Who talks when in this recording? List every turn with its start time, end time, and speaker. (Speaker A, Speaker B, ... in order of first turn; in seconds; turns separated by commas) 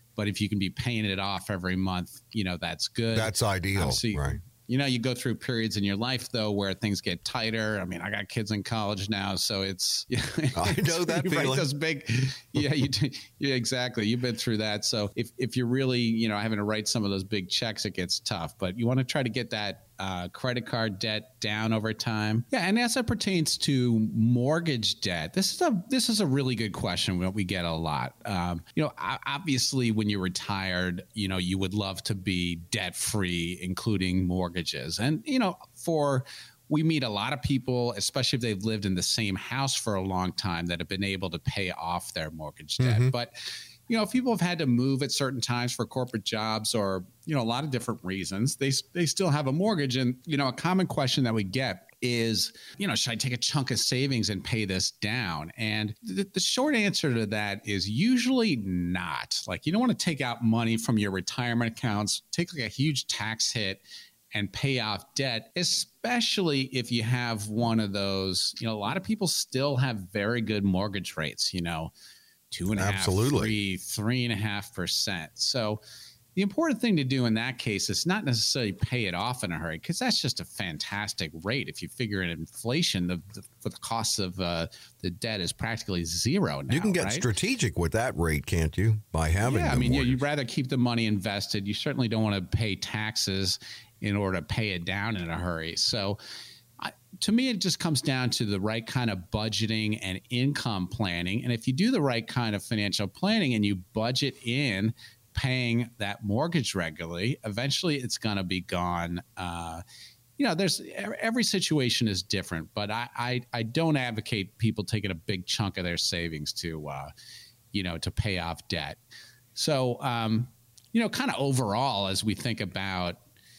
Speaker A: 0.2-43.3, Speaker B: 3.1-4.4, Speaker B: 10.6-11.7, Speaker B: 42.8-43.1, Speaker A: 43.9-63.8, Speaker A: 64.3-71.9, Speaker A: 72.5-75.8, Speaker B: 72.8-73.5, Speaker A: 76.4-87.3, Speaker B: 86.7-90.2, Speaker A: 89.4-96.2, Speaker A: 96.8-109.8, Speaker A: 110.4-117.1, Speaker A: 117.7-119.0, Speaker A: 119.6-123.2